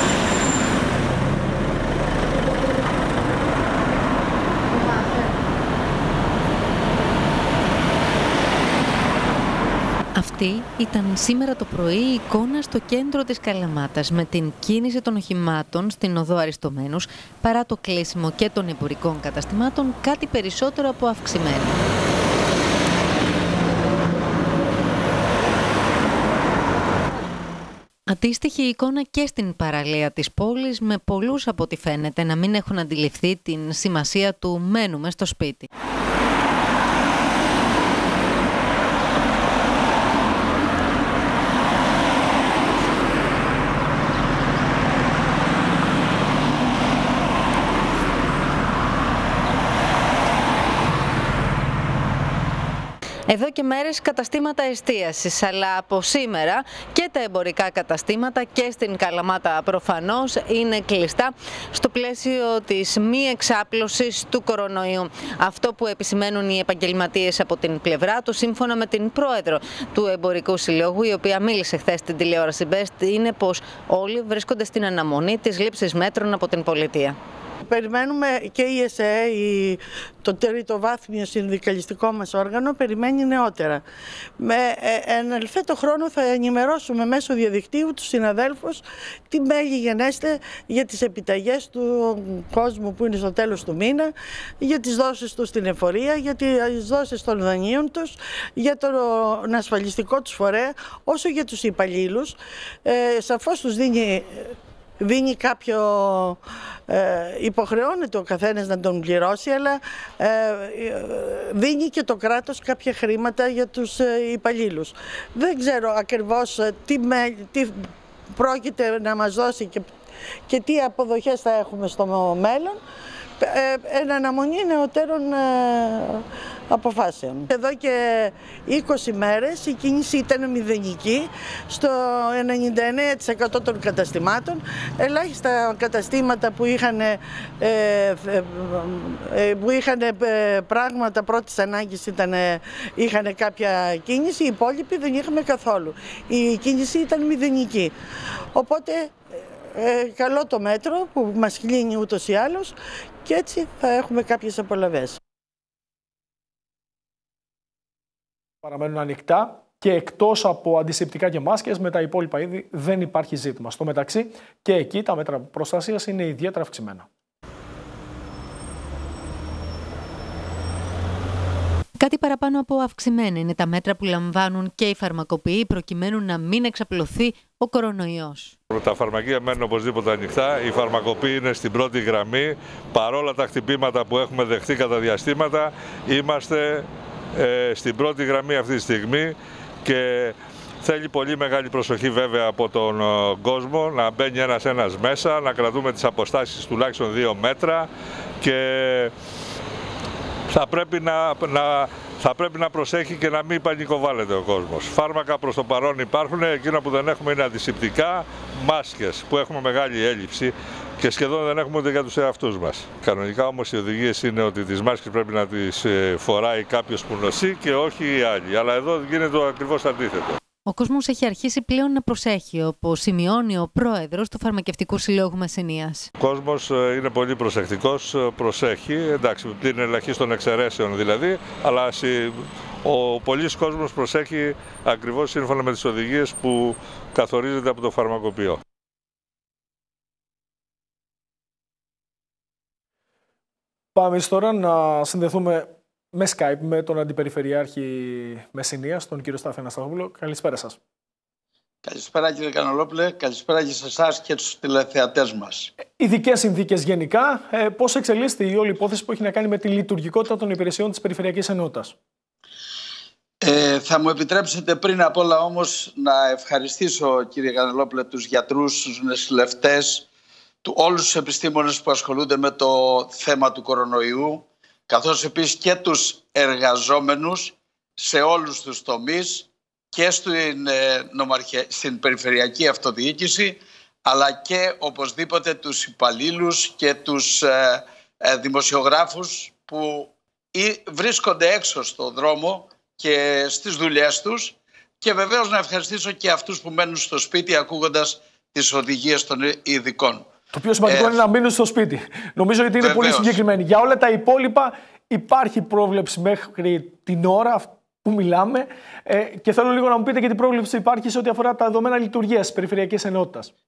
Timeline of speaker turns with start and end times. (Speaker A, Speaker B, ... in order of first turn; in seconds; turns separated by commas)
Speaker A: 10.2-21.8, Speaker A: 28.1-35.7, Speaker A: 53.3-77.2, Speaker B: 77.7-83.8, Speaker B: 84.4-119.9, Speaker B: 120.5-122.8, Speaker B: 123.4-147.9, Speaker B: 148.6-152.7, Speaker B: 153.2-155.2, Speaker C: 158.6-167.1, Speaker A: 172.0-178.6, Speaker D: 178.7-197.9, Speaker D: 198.4-199.1, Speaker D: 200.5-220.4, Speaker A: 220.7-226.1, Speaker D: 226.2-238.6, Speaker C: 243.9-250.8, Speaker E: 251.8-255.7, Speaker C: 256.0-261.9, Speaker E: 263.4-270.1, Speaker E: 270.6-300.3, Speaker C: 300.5-313.5, Speaker E: 300.9-301.2, Speaker E: 302.8-303.4